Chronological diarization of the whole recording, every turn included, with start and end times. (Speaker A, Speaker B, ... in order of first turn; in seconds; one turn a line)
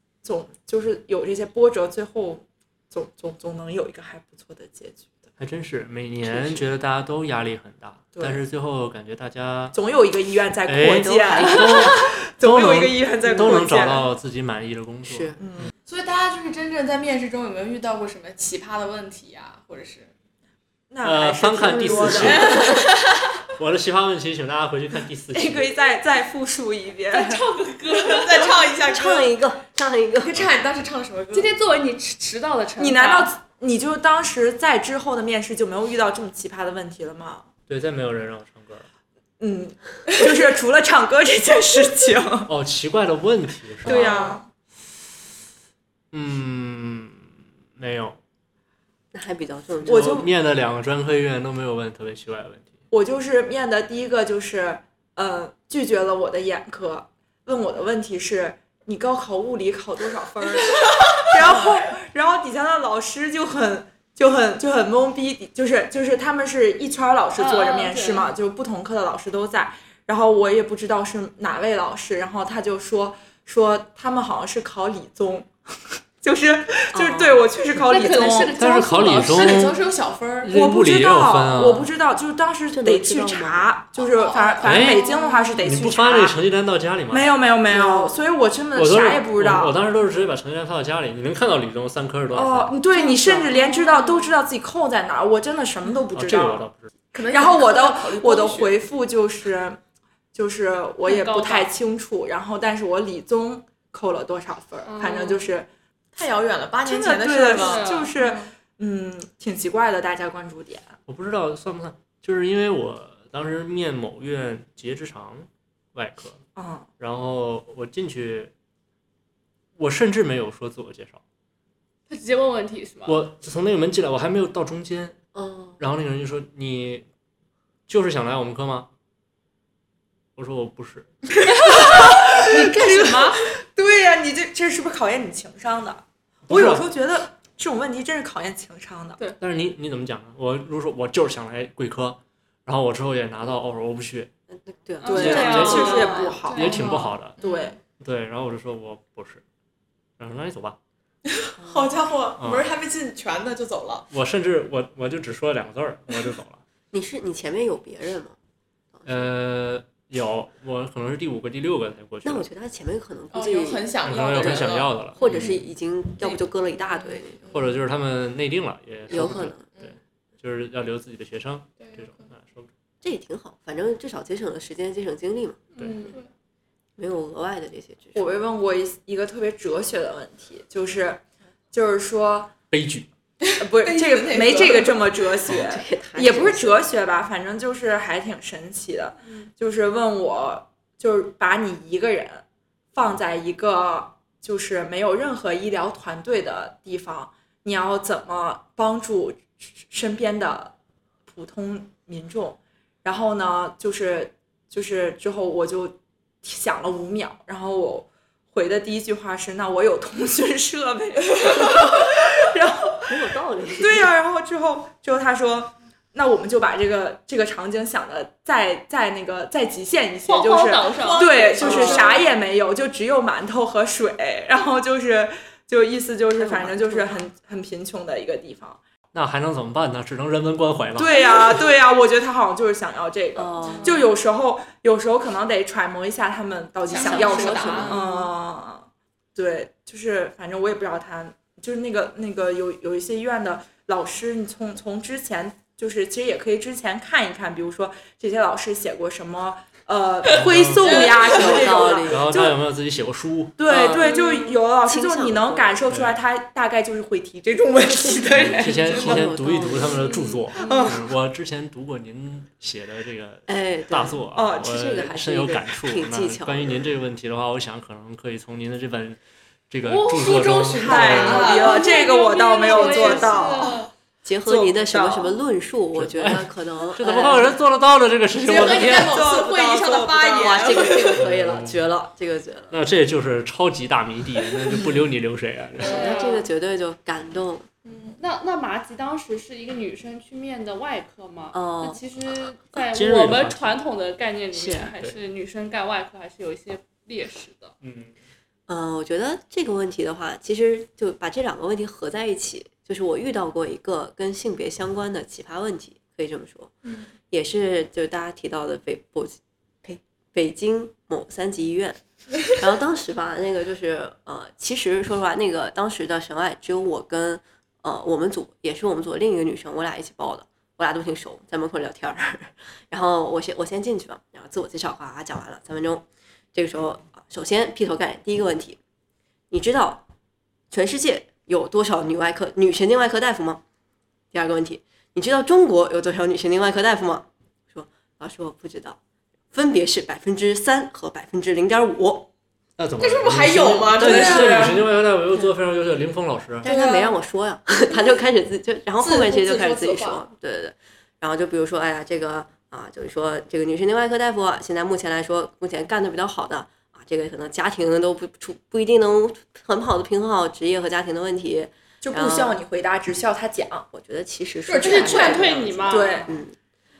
Speaker A: 0.2-5.2
Speaker B: 5.4-9.8
Speaker A: 6.3-6.6
Speaker A: 8.2-8.4
Speaker A: 9.7-14.1
Speaker B: 10.7-15.4
Speaker C: 15.0-15.4
Speaker A: 15.4-15.7
Speaker D: 15.9-20.1
Speaker A: 20.9-22.9
Speaker B: 21.0-22.7
Speaker C: 21.6-22.9
Speaker D: 22.2-23.2
Speaker B: 23.6-25.7
Speaker A: 25.3-27.4
Speaker E: 27.1-28.6
Speaker D: 27.9-29.4
Speaker C: 28.8-30.4
Speaker D: 30.2-31.5
Speaker E: 31.3-33.3
Speaker A: 32.8-37.5
Speaker B: 37.7-38.9
Speaker A: 39.4-42.5
Speaker B: 42.5-44.2
Speaker A: 43.8-44.5
Speaker E: 43.9-44.3
Speaker B: 46.1-48.2
Speaker C: 49.1-50.3
Speaker B: 49.9-52.7
Speaker A: 49.9-50.3
Speaker A: 52.9-75.5
Speaker E: 67.4-68.3
Speaker A: 76.2-78.5
Speaker C: 76.9-77.4
Speaker E: 77.9-79.7
Speaker B: 78.6-79.8
Speaker D: 79.2-80.5
Speaker B: 80.4-81.9
Speaker A: 80.5-86.4
Speaker C: 82.7-83.7
Speaker D: 84.0-85.5
Speaker B: 84.6-85.1
Speaker B: 85.6-87.3
Speaker A: 87.1-89.8
Speaker B: 88.8-92.8
Speaker A: 92.3-96.7
Speaker E: 92.9-94.3
Speaker D: 93.1-93.6
Speaker B: 96.2-96.9
Speaker D: 97.1-98.8
Speaker A: 97.3-99.8
Speaker A: 100.3-105.7
Speaker E: 101.0-101.7
Speaker E: 104.9-105.5
Speaker D: 106.1-108.5
Speaker A: 106.8-111.0
Speaker E: 107.5-108.1
Speaker B: 111.1-116.4
Speaker A: 116.6-116.9
Speaker B: 117.0-118.5
Speaker B: 119.8-121.2
Speaker E: 122.1-123.2
Speaker B: 123.1-125.2
Speaker C: 125.3-125.8
Speaker B: 125.8-127.0
Speaker B: 127.9-128.9
Speaker B: 130.4-131.1
Speaker E: 131.6-133.4
Speaker A: 131.7-139.2
Speaker B: 136.5-136.9
Speaker B: 139.4-144.3
Speaker C: 144.5-146.3
Speaker E: 145.0-147.2
Speaker A: 145.1-146.9
Speaker B: 145.1-147.4
Speaker D: 147.4-147.8
Speaker A: 147.4-147.8
Speaker B: 147.9-149.4
Speaker B: 150.2-150.8
Speaker D: 151.3-154.1
Speaker C: 151.6-151.9
Speaker B: 152.4-152.7
Speaker B: 154.1-156.6
Speaker C: 156.9-158.4
Speaker C: 158.9-159.3
Speaker B: 159.1-162.5
Speaker C: 162.2-164.7
Speaker D: 163.3-167.8
Speaker B: 164.0-165.6
Speaker C: 165.2-167.6
Speaker B: 167.5-172.7
Speaker C: 169.1-169.7
Speaker D: 171.8-172.3
Speaker C: 173.0-175.6
Speaker E: 175.8-176.2
Speaker C: 177.0-178.4
Speaker A: 178.2-182.5
Speaker B: 182.7-183.1
Speaker D: 183.4-185.2
Speaker A: 183.6-200.7
Speaker C: 185.5-186.8
Speaker A: 201.3-213.2
Speaker C: 213.0-214.1
Speaker A: 213.8-228.8
Speaker E: 220.3-222.2
Speaker D: 220.9-222.3
Speaker C: 221.6-222.1
Speaker C: 226.4-227.2
Speaker B: 229.1-231.6
Speaker A: 231.0-252.6
Speaker C: 233.4-234.0
Speaker D: 236.9-238.0
Speaker C: 237.0-238.0
Speaker E: 237.0-238.2
Speaker B: 250.3-251.2
Speaker D: 250.8-251.9
Speaker C: 251.0-252.4
Speaker B: 252.1-253.6
Speaker A: 253.6-259.4
Speaker C: 253.7-254.2
Speaker E: 254.0-254.6
Speaker C: 254.8-255.8
Speaker B: 255.9-256.2
Speaker C: 258.3-260.4
Speaker B: 258.3-269.2
Speaker E: 260.1-260.9
Speaker A: 260.6-261.0
Speaker D: 260.6-260.9
Speaker C: 263.5-266.9
Speaker A: 264.3-264.8
Speaker B: 269.7-271.6
Speaker E: 269.9-273.9
Speaker A: 270.7-273.9
Speaker D: 271.0-271.9
Speaker D: 272.6-272.9
Speaker C: 272.9-273.3
Speaker C: 274.2-277.6
Speaker A: 274.4-275.4
Speaker B: 275.9-279.3
Speaker D: 278.4-281.3
Speaker A: 278.8-280.8
Speaker C: 280.3-282.7
Speaker B: 281.2-281.8
Speaker B: 282.7-286.1
Speaker C: 285.8-287.7
Speaker E: 285.8-286.5
Speaker D: 287.9-288.2
Speaker E: 288.2-297.7
Speaker C: 291.5-292.0
Speaker B: 292.8-293.8
Speaker C: 294.5-294.9
Speaker B: 297.8-298.1
Speaker C: 298.7-306.8
Speaker C: 307.3-328.8
Speaker C: 329.5-330.0
Speaker C: 330.7-333.6
Speaker C: 334.3-339.0
Speaker C: 339.5-342.3
Speaker B: 342.8-346.7
Speaker D: 343.0-344.9
Speaker A: 344.1-344.4
Speaker C: 344.1-344.7
Speaker D: 346.6-347.1
Speaker C: 346.6-362.6
Speaker D: 349.0-350.2
Speaker A: 362.0-363.9
Speaker C: 363.9-366.6
Speaker D: 364.7-365.5
Speaker E: 364.8-366.3
Speaker A: 365.9-366.4